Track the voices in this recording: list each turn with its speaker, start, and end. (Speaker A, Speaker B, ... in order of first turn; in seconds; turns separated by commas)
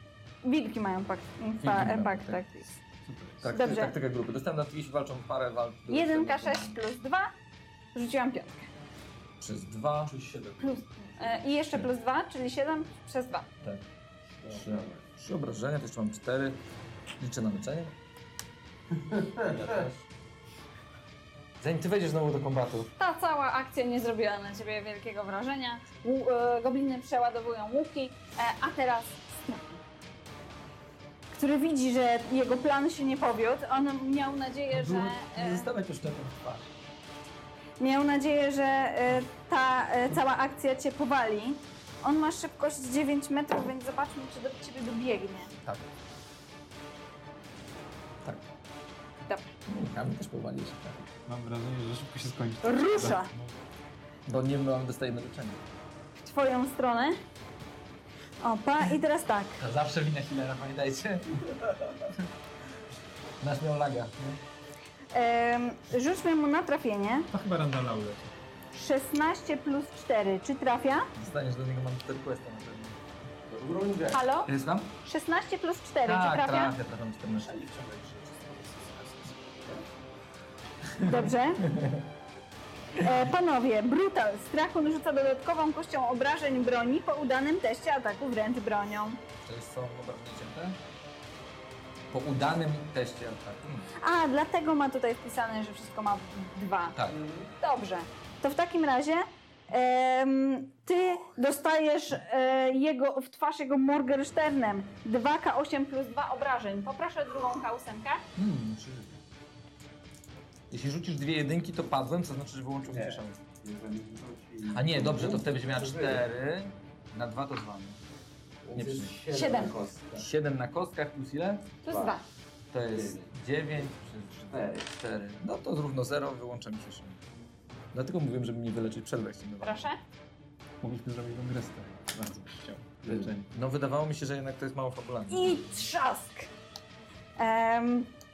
Speaker A: 0.4-2.7, Speaker B: 1.6-2.5, Speaker C: 3.0-3.5, Speaker B: 3.4-6.8, Speaker A: 3.5-4.0, Speaker A: 5.9-7.3, Speaker A: 8.0-8.7, Speaker B: 9.4-10.2, Speaker D: 10.1-11.3, Speaker A: 10.6-13.5, Speaker B: 13.6-13.9, Speaker E: 14.4-15.0, Speaker B: 14.5-16.6, Speaker B: 17.2-17.9, Speaker E: 19.0-19.9, Speaker B: 19.5-20.0, Speaker B: 21.6-22.9, Speaker A: 23.0-29.8, Speaker A: 31.3-35.7, Speaker B: 34.7-36.7, Speaker A: 37.8-45.5, Speaker B: 45.6-45.9, Speaker A: 49.3-49.5, Speaker B: 49.7-51.1, Speaker C: 51.3-53.4, Speaker A: 52.6-53.3, Speaker B: 54.3-55.6, Speaker A: 56.2-57.2, Speaker A: 58.4-59.6, Speaker B: 59.6-61.5, Speaker B: 63.4-64.4, Speaker A: 65.1-67.3, Speaker C: 67.3-68.3, Speaker A: 68.7-71.1, Speaker B: 71.2-73.0, Speaker E: 73.5-74.3, Speaker A: 74.1-74.5, Speaker B: 74.5-75.0, Speaker A: 75.0-76.7, Speaker B: 76.0-77.5, Speaker D: 77.4-79.9, Speaker A: 81.0-81.7, Speaker B: 81.0-82.1, Speaker A: 82.9-89.2, Speaker B: 89.4-90.8, Speaker B: 92.1-93.9, Speaker A: 94.0-97.0, Speaker B: 96.9-97.2, Speaker E: 97.1-97.5, Speaker A: 97.6-108.2, Speaker B: 108.4-109.2, Speaker B: 110.7-113.4, Speaker E: 112.9-116.2, Speaker B: 114.7-118.0, Speaker E: 118.6-120.3, Speaker B: 118.7-119.2, Speaker A: 119.3-119.8, Speaker B: 120.2-121.8, Speaker A: 121.8-122.2, Speaker E: 121.9-122.2, Speaker B: 122.7-127.2, Speaker E: 122.9-123.8, Speaker E: 124.5-124.9, Speaker B: 127.9-129.9, Speaker A: 129.6-130.0, Speaker C: 130.8-133.5, Speaker B: 133.5-135.6, Speaker A: 135.3-136.5, Speaker A: 137.4-138.1